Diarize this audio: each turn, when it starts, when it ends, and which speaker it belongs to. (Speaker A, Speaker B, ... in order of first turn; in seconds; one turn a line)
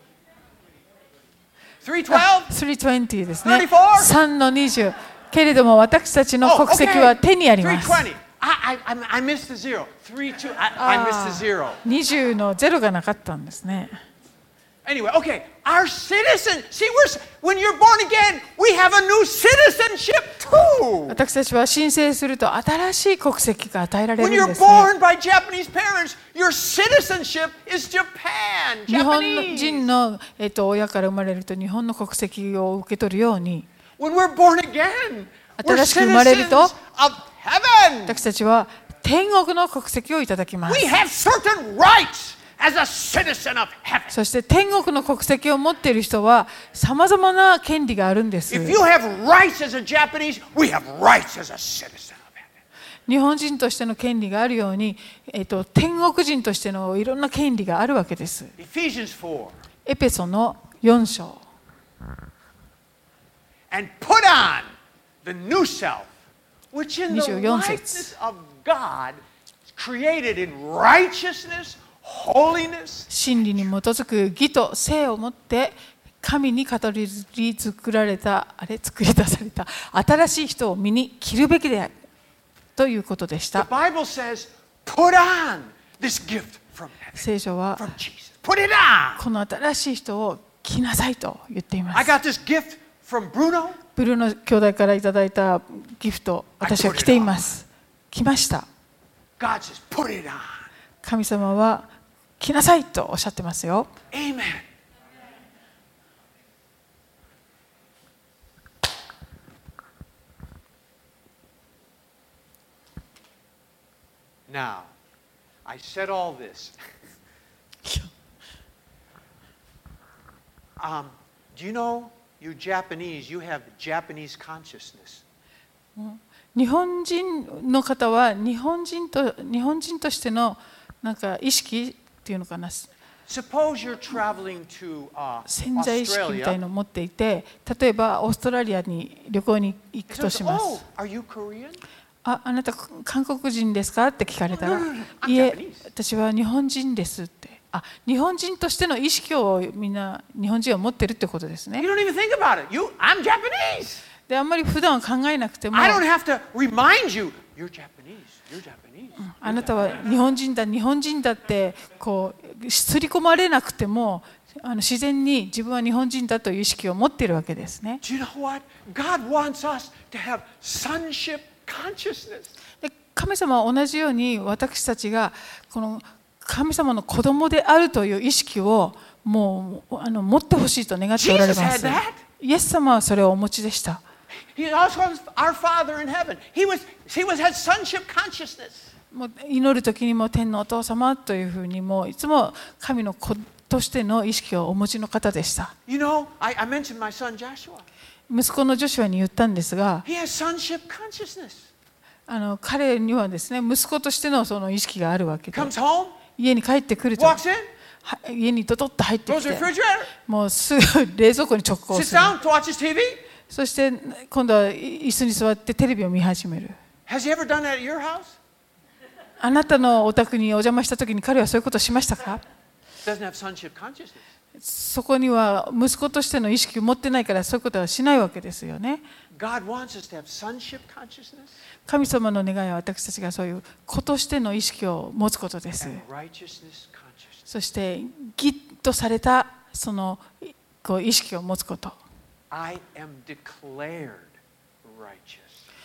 Speaker A: 1.8-2.5
Speaker B: 2.1-8.1
Speaker A: 3.4-4.2
Speaker A: 6.4-11.8
Speaker B: 10.8-14.0
Speaker A: 14.8-21.2
Speaker B: 21.1-24.9
Speaker A: 24.2-29.8
Speaker B: 28.9-33.7
Speaker A: 34.0-38.2
Speaker B: 35.6-36.7
Speaker B: 38.1-40.9
Speaker A: 40.7-44.1
Speaker B: 44.1-48.8
Speaker A: 48.5-52.5
Speaker B: 53.1-58.5
Speaker A: 58.6-59.5
Speaker B: 59.9-61.5
Speaker A: 63.7-64.7
Speaker A: 65.2-66.1
Speaker A: 66.7-69.2
Speaker B: 67.1-68.1
Speaker A: 69.7-73.1
Speaker B: 73.1-81.9
Speaker B: 82.8-83.7
Speaker A: 83.5-89.2
Speaker B: 87.2-87.9
Speaker B: 89.2-92.1
Speaker A: 91.9-93.8
Speaker B: 94.0-98.7
Speaker A: 96.6-97.5
Speaker A: 99.4-100.7
Speaker B: 101.0-103.9
Speaker A: 104.1-104.7
Speaker A: 114.5-114.9
Speaker A: 115.7-116.7
Speaker B: 117.8-118.1
Speaker A: 120.8-125.2
Speaker B: 126.0-132.9
Speaker A: 133.3-136.6
Speaker B: 135.5-140.8
Speaker A: 140.1-141.8
Speaker B: 142.2-151.9
Speaker A: 144.5-145.9
Speaker A: 151.8-154.0
Speaker B: 154.3-156.0
Speaker A: 155.7-159.9
Speaker B: 159.2-168.0
Speaker A: 168.0-172.5
Speaker B: 172.8-184.0
Speaker A: 181.2-182.2
Speaker A: 184.5-188.9
Speaker B: 189.1-195.7
Speaker A: 195.9-197.8
Speaker B: 198.3-200.0
Speaker A: 200.0-201.7
Speaker B: 202.3-205.7
Speaker A: 205.5-206.2
Speaker B: 206.3-207.4
Speaker A: 207.2-207.7
Speaker B: 208.0-212.3
Speaker A: 209.3-210.1
Speaker A: 211.9-213.2
Speaker B: 213.5-216.8
Speaker A: 217.1-218.4
Speaker B: 219.4-222.4
Speaker A: 223.0-224.2
Speaker B: 224.6-229.0
Speaker A: 229.3-231.6
Speaker B: 231.9-236.0
Speaker A: 235.8-237.5
Speaker B: 237.5-242.0
Speaker A: 242.5-245.7